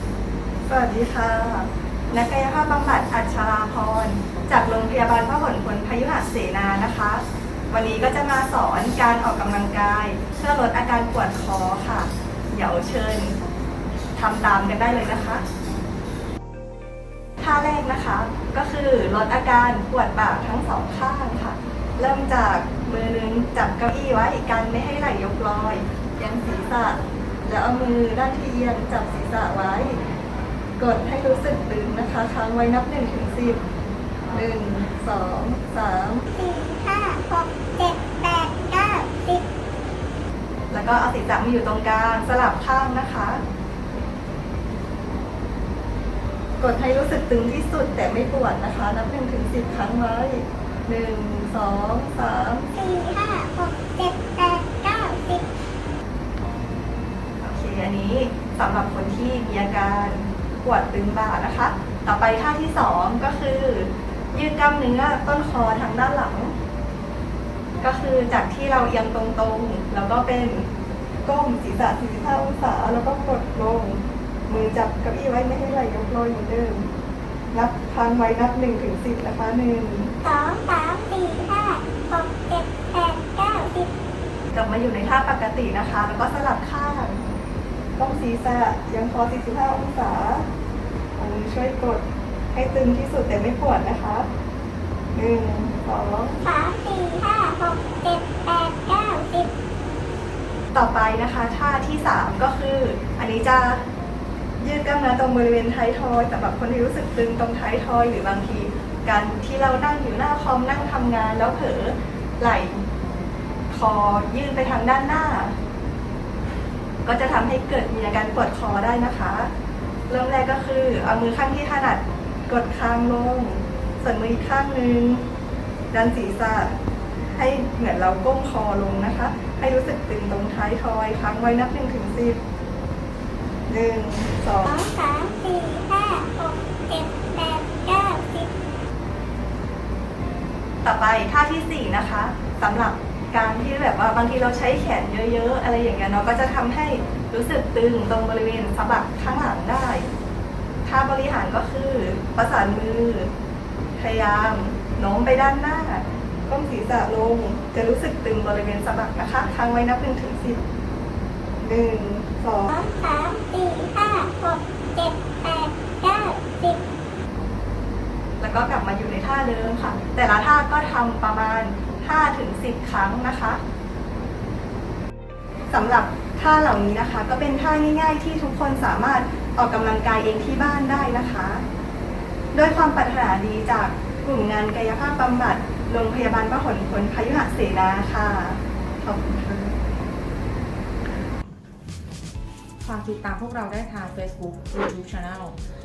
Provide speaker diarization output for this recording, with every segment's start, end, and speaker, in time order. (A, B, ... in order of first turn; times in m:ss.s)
0:00.7-0:13.4 A
0:14.2-0:15.4 A
0:17.4-0:30.0 A
0:30.8-0:33.6 A
0:34.3-0:36.2 A
0:36.3-0:39.4 B
0:40.7-0:43.4 A
0:46.6-0:52.7 A
0:52.7-0:55.5 B
0:57.4-1:06.5 A
1:07.8-1:10.7 A
1:11.2-1:16.9 A
1:17.5-1:20.1 A
1:20.2-1:23.9 B
1:24.5-1:27.2 A
1:28.0-1:30.5 A
1:31.2-1:34.3 A
1:35.1-1:36.4 A
1:36.4-1:39.5 B
1:40.7-1:43.8 A
1:44.6-1:52.8 A
1:53.7-1:55.6 A
1:57.0-1:59.5 A
2:00.1-2:05.2 A
2:05.9-2:06.8 A
2:07.3-2:12.4 A
2:13.7-2:14.7 A
2:14.6-2:18.5 B
2:20.8-2:30.1 A
2:30.8-2:33.3 A
2:34.0-2:40.6 A
2:41.6-2:42.7 A
2:42.7-2:46.8 B
2:48.4-2:53.6 A
2:55.7-3:01.6 A
3:02.5-3:09.8 A
3:12.8-3:15.6 C